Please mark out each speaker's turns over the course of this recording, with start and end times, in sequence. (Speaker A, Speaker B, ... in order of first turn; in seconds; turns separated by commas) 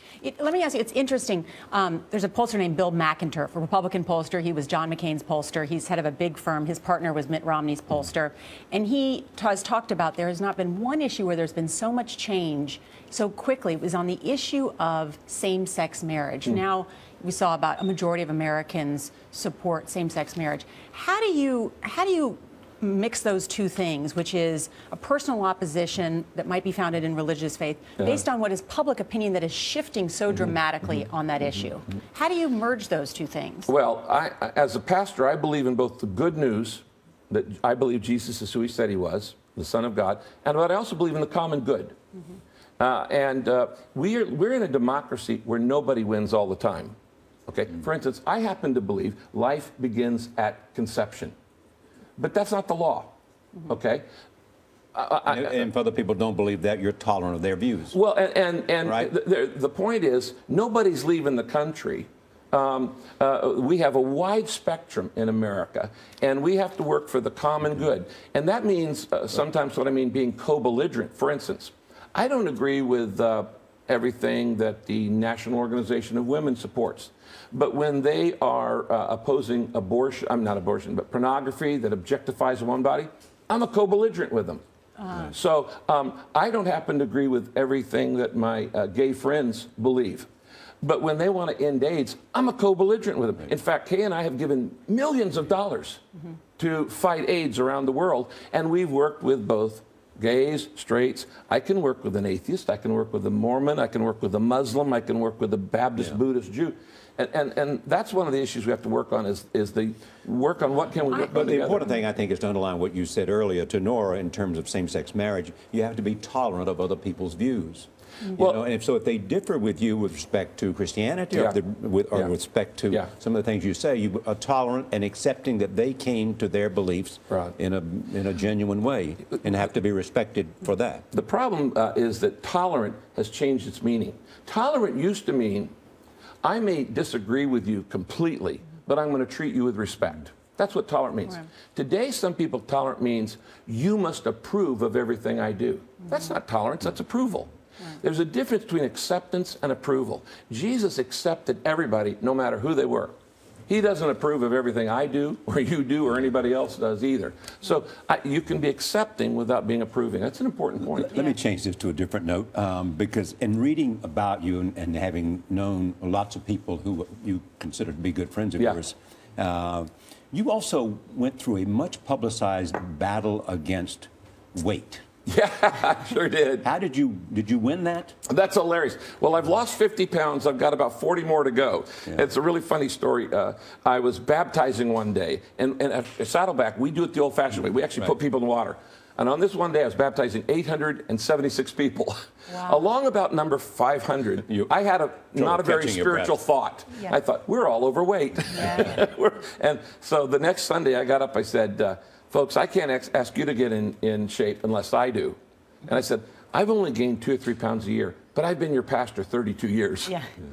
Speaker A: 0.2-33.7, Speaker B: 33.7-41.9, Speaker B: 42.8-46.9, Speaker B: 47.5-51.3, Speaker B: 52.2-53.1, Speaker B: 53.7-54.0, Speaker B: 54.9-55.6, Speaker C: 55.2-57.9, Speaker B: 57.9-84.6, Speaker C: 58.8-59.1, Speaker A: 85.0-85.3, Speaker B: 85.2-90.3, Speaker B: 90.8-96.0, Speaker B: 96.6-111.9, Speaker C: 111.2-131.0, Speaker B: 131.1-135.7, Speaker B: 136.4-153.1, Speaker B: 153.7-161.2, Speaker C: 160.9-175.0, Speaker B: 175.2-176.7, Speaker C: 176.6-178.1, Speaker B: 178.3-210.1, Speaker A: 192.5-192.8, Speaker C: 195.3-196.4, Speaker A: 198.5-198.9